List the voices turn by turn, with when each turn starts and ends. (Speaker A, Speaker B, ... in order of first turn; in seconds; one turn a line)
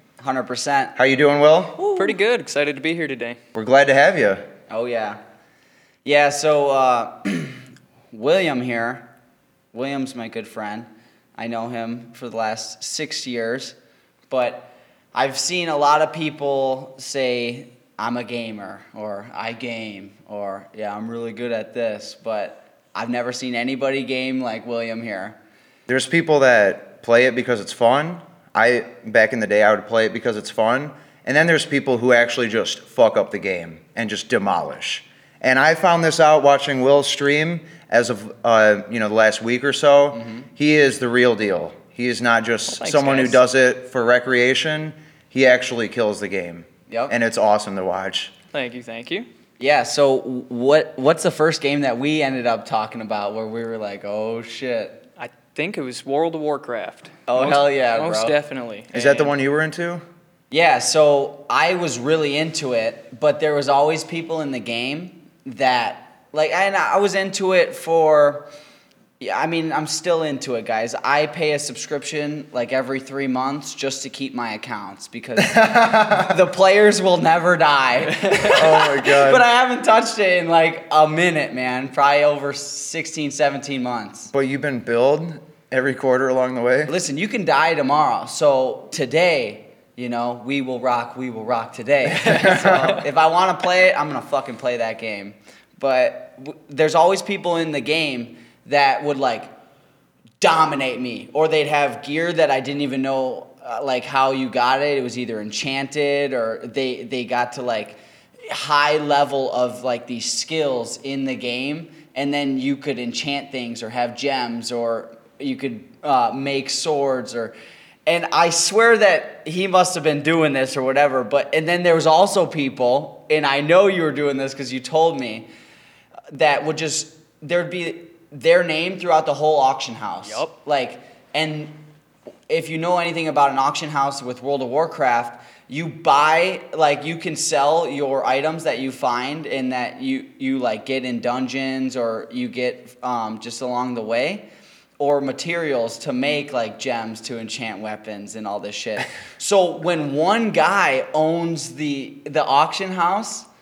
Speaker A: 0.2-0.9
Speaker B: 1.0-1.8
Speaker A: 1.8-2.2
Speaker C: 2.0-3.4
Speaker B: 3.5-4.5
Speaker A: 4.7-5.2
Speaker A: 6.0-9.1
Speaker A: 9.7-13.8
Speaker A: 14.3-25.4
Speaker B: 25.9-48.3
Speaker A: 40.1-40.5
Speaker C: 42.7-43.4
Speaker A: 46.9-47.2
Speaker C: 48.5-49.3
Speaker A: 49.6-55.1
Speaker C: 55.2-59.4
Speaker A: 57.3-58.4
Speaker B: 58.9-60.0
Speaker A: 60.5-68.5
Speaker A: 69.2-84.3
Speaker B: 75.4-76.4
Speaker B: 78.5-79.5
Speaker B: 84.3-86.9
Speaker A: 86.9-99.5
Speaker C: 92.2-93.0
Speaker B: 92.3-92.6
Speaker A: 100.4-117.5
Speaker A: 118.1-125.5
Speaker A: 126.3-131.9
Speaker C: 130.2-130.5
Speaker A: 132.5-144.5
Speaker A: 145.0-153.5